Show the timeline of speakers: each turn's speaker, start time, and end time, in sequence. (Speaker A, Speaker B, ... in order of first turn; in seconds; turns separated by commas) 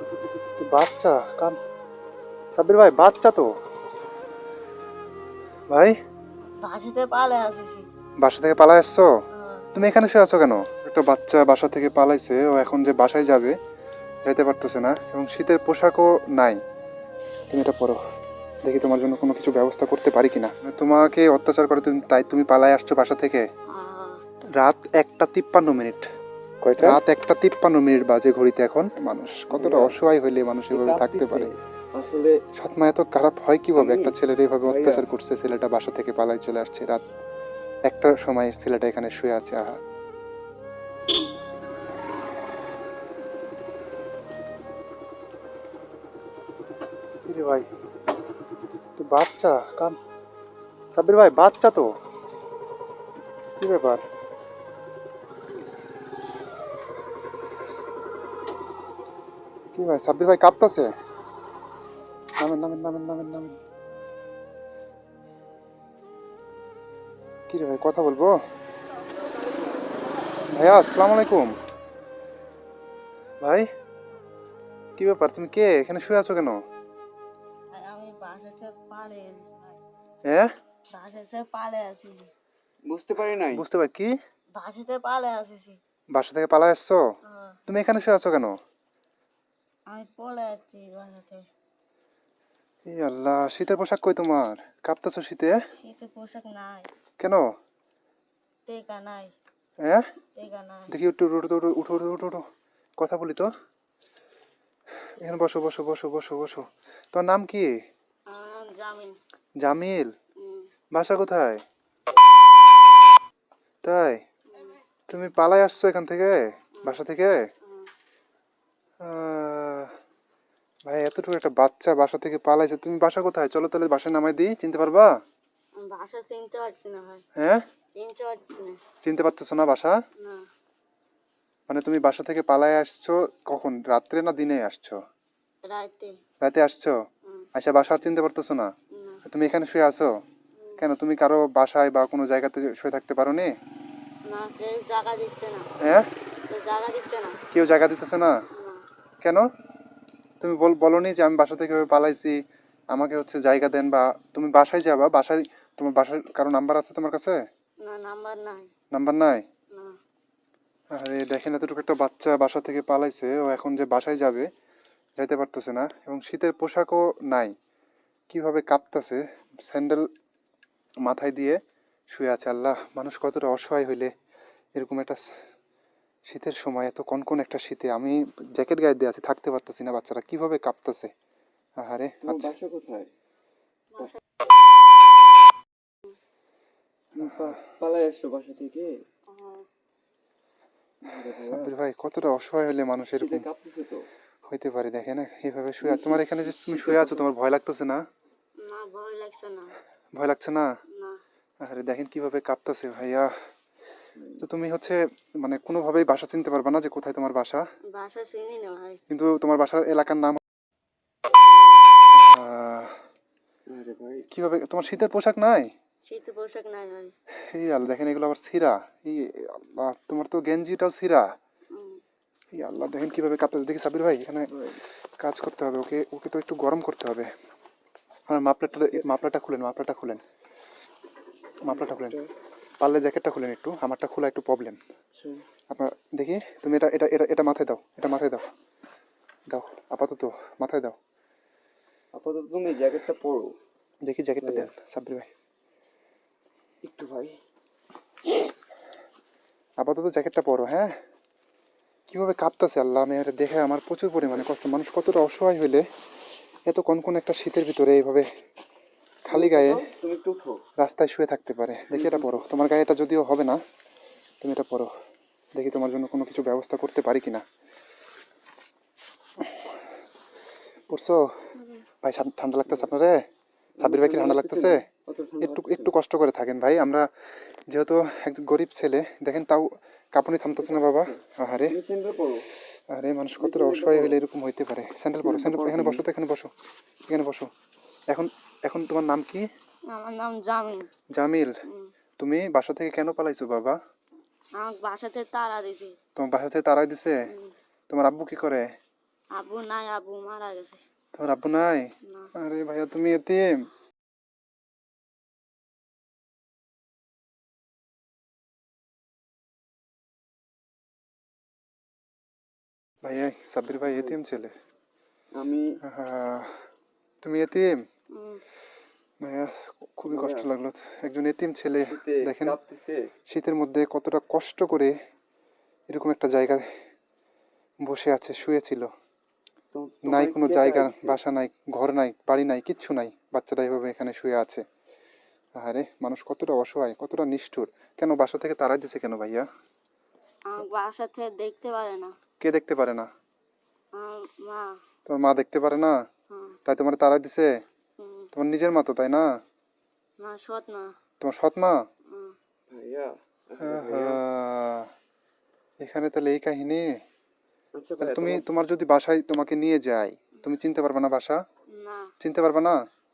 Speaker A: 0.6-1.6, Speaker A: 2.6-3.5, Speaker B: 6.6-7.9, Speaker A: 8.2-9.1, Speaker B: 9.3-9.7, Speaker A: 9.8-13.6, Speaker A: 14.2-16.6, Speaker A: 17.5-18.0, Speaker A: 18.6-23.4, Speaker B: 23.7-24.2, Speaker A: 24.6-26.1, Speaker C: 26.6-27.0, Speaker A: 26.8-31.5, Speaker C: 29.5-30.0, Speaker C: 30.7-32.3, Speaker A: 32.6-37.0, Speaker C: 33.8-35.1, Speaker A: 37.9-39.8, Speaker A: 47.3-47.7, Speaker A: 49.0-50.0, Speaker A: 51.0-51.9, Speaker A: 53.6-54.0, Speaker A: 59.8-60.9, Speaker A: 62.4-63.6, Speaker A: 67.5-68.3, Speaker A: 70.5-71.5, Speaker A: 73.4-73.7, Speaker A: 75.0-76.6, Speaker B: 77.7-79.8, Speaker A: 80.2-80.5, Speaker B: 80.9-82.3, Speaker C: 82.9-83.6, Speaker A: 83.5-84.1, Speaker B: 84.5-85.8, Speaker A: 86.1-87.0, Speaker B: 87.3-87.6, Speaker A: 87.7-88.6, Speaker B: 89.9-91.5, Speaker A: 92.9-95.5, Speaker B: 95.7-96.9, Speaker A: 97.2-97.4, Speaker B: 98.7-99.3, Speaker B: 100.4-100.9, Speaker A: 100.9-102.4, Speaker A: 103.0-103.5, Speaker A: 105.2-107.7, Speaker B: 108.3-109.2, Speaker A: 109.6-110.1, Speaker B: 110.4-110.7, Speaker A: 110.9-111.6, Speaker A: 113.8-114.2, Speaker A: 115.1-117.4, Speaker A: 119.0-119.9, Speaker A: 120.9-125.1, Speaker B: 125.8-127.2, Speaker A: 127.4-127.6, Speaker B: 128.0-128.8, Speaker A: 129.0-129.9, Speaker B: 130.2-130.5, Speaker A: 131.7-134.9, Speaker B: 135.7-136.1, Speaker A: 136.4-136.9, Speaker A: 137.6-138.7, Speaker B: 138.9-139.2, Speaker A: 139.3-140.1, Speaker B: 140.6-140.8, Speaker A: 140.8-143.5, Speaker B: 144.3-145.7, Speaker B: 146.5-147.4, Speaker A: 147.5-148.3, Speaker B: 148.5-148.8, Speaker A: 150.4-152.4, Speaker A: 152.9-157.3, Speaker B: 157.8-158.7, Speaker A: 158.9-159.4, Speaker B: 159.7-160.0, Speaker A: 160.9-164.5, Speaker A: 165.2-167.5, Speaker A: 168.3-170.1, Speaker A: 171.0-171.6, Speaker A: 172.1-174.1, Speaker A: 174.8-175.2, Speaker A: 176.3-181.1, Speaker A: 181.8-182.5, Speaker C: 182.2-183.1, Speaker C: 187.1-188.9, Speaker A: 187.2-187.5, Speaker B: 189.3-189.7, Speaker C: 191.0-191.7, Speaker A: 191.4-193.4, Speaker C: 193.2-194.1, Speaker A: 194.5-198.0, Speaker C: 195.8-197.3, Speaker B: 198.6-199.8, Speaker A: 200.2-200.7, Speaker B: 200.9-201.2, Speaker A: 201.6-203.3, Speaker C: 204.2-204.4, Speaker A: 204.4-207.6, Speaker B: 207.9-209.0, Speaker A: 209.1-210.4, Speaker B: 211.5-211.8, Speaker A: 212.1-213.0, Speaker C: 213.7-214.3, Speaker A: 214.3-215.7, Speaker B: 216.1-217.1, Speaker A: 217.5-221.3, Speaker B: 221.7-222.0, Speaker A: 222.6-224.5, Speaker C: 224.5-224.8, Speaker A: 225.2-227.3, Speaker A: 228.3-230.2, Speaker A: 231.6-232.2, Speaker C: 231.7-232.3, Speaker A: 232.8-234.8, Speaker A: 235.7-238.4, Speaker A: 239.5-241.0, Speaker C: 242.2-243.5, Speaker A: 244.1-245.3, Speaker C: 244.4-244.7, Speaker C: 246.8-247.3, Speaker A: 249.8-250.9, Speaker A: 252.1-255.8, Speaker A: 256.7-258.3, Speaker A: 259.3-259.8, Speaker C: 259.3-260.6, Speaker A: 260.8-263.6, Speaker C: 261.9-262.4, Speaker A: 264.4-264.9, Speaker A: 265.6-267.4, Speaker A: 270.9-271.2, Speaker B: 271.6-271.9, Speaker A: 272.0-273.2, Speaker C: 273.8-275.9, Speaker A: 273.8-274.8, Speaker A: 275.4-277.1, Speaker A: 277.7-281.8, Speaker C: 280.6-282.5, Speaker A: 282.9-286.5, Speaker C: 283.4-284.2, Speaker C: 285.2-286.1, Speaker A: 287.1-287.5, Speaker A: 288.1-289.4, Speaker B: 289.9-290.9, Speaker A: 291.2-291.5, Speaker A: 292.2-293.8, Speaker B: 294.6-296.0, Speaker A: 296.2-297.2, Speaker A: 297.9-298.6, Speaker B: 299.4-300.8, Speaker A: 301.1-301.9, Speaker A: 302.4-303.5, Speaker A: 313.0-314.5, Speaker C: 313.8-314.2, Speaker C: 315.4-315.6, Speaker A: 315.8-316.6, Speaker A: 317.2-317.7, Speaker B: 318.1-318.4, Speaker A: 319.2-322.6, Speaker C: 320.1-320.5, Speaker C: 321.8-323.0, Speaker A: 323.3-324.9, Speaker A: 325.9-326.6, Speaker A: 327.8-328.9, Speaker C: 329.7-331.2, Speaker A: 330.1-334.6, Speaker A: 335.6-339.5, Speaker B: 340.5-342.1, Speaker A: 342.4-343.1, Speaker B: 343.9-344.8, Speaker A: 345.1-345.9, Speaker B: 346.3-346.6, Speaker A: 346.7-347.5, Speaker B: 348.0-348.3, Speaker A: 348.4-349.2, Speaker B: 350.2-350.9, Speaker A: 351.2-351.8, Speaker B: 352.1-352.4, Speaker C: 352.7-354.2, Speaker A: 353.6-354.9, Speaker A: 355.8-356.9, Speaker C: 357.8-358.5, Speaker A: 358.0-361.4, Speaker B: 361.7-362.1, Speaker A: 362.2-362.8